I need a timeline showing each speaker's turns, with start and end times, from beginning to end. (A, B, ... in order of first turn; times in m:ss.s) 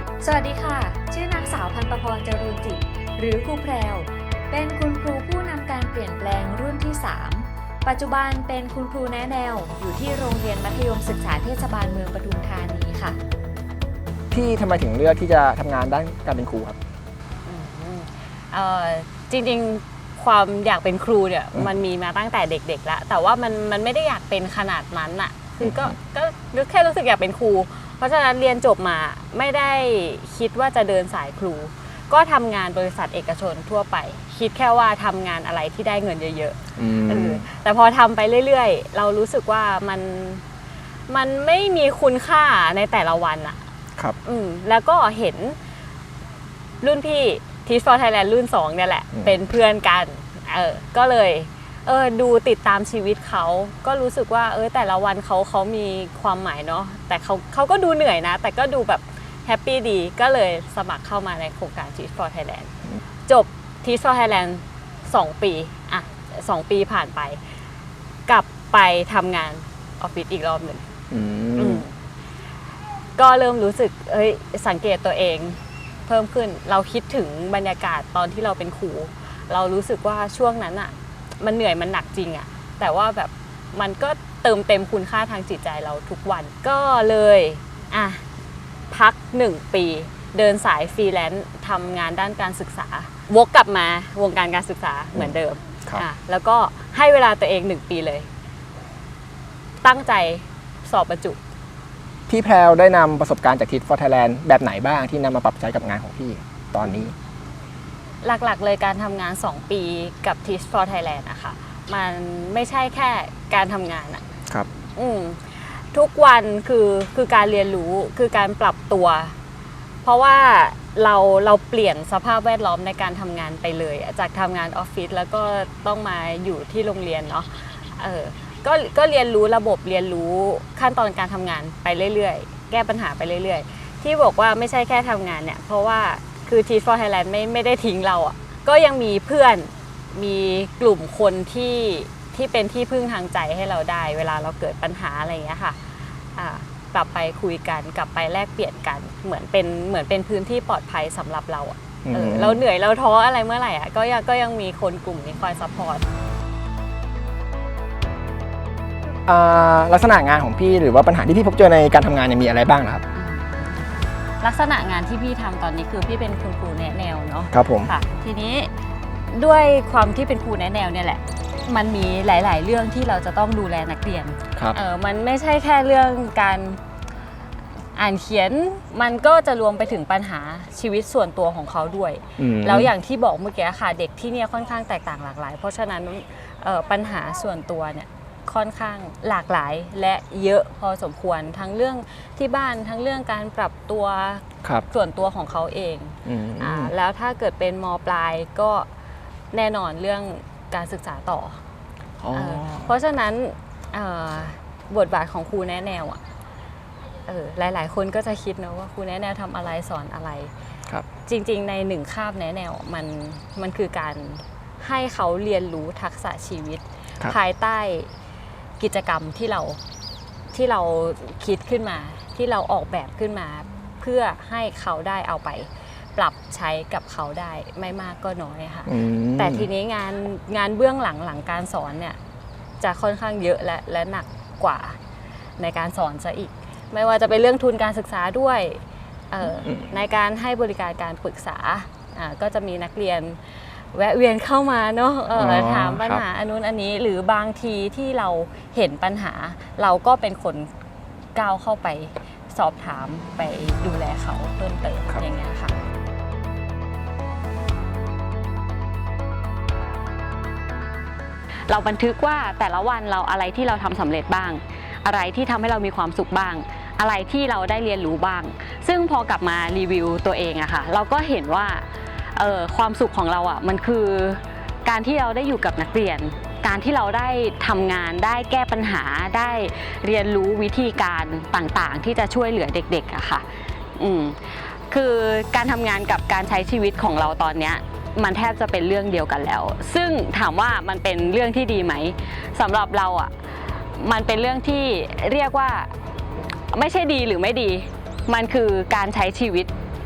0:00.2-0:13.2 A
0:14.3-0:16.8 B
0:17.4-0:40.4 C
0:36.8-0:37.4 B
0:41.1-0:43.6 C
0:44.2-0:45.6 C
0:46.8-1:02.7 C
1:03.3-1:07.4 C
1:08.3-1:10.8 C
1:11.1-1:11.8 B
1:11.6-1:11.9 C
1:13.2-1:28.2 C
1:28.9-1:38.3 C
1:39.8-1:41.4 C
1:42.3-1:47.1 B
1:48.2-1:54.2 C
1:55.0-1:59.3 C
2:00.0-2:25.8 C
2:26.3-2:36.0 C
2:32.0-2:32.6 B
2:39.3-2:43.0 B
2:43.1-2:43.8 C
2:44.4-2:48.7 C
2:47.5-2:47.9 B
2:49.3-2:56.8 C
2:57.9-3:18.9 C
3:02.4-3:02.9 B
3:16.2-3:16.9 B
3:19.5-3:21.6 C
3:22.2-3:22.9 B
3:22.3-3:26.2 C
3:27.2-3:30.5 C
3:31.2-3:38.1 C
3:38.8-3:39.8 C
3:40.5-3:52.2 C
3:48.8-3:49.7 B
3:52.8-3:55.0 C
3:55.6-4:10.7 C
3:59.4-3:59.9 B
4:05.3-4:06.2 B
4:11.3-4:15.7 C
4:21.7-4:53.3 C
4:53.9-4:55.9 C
4:56.7-4:59.7 C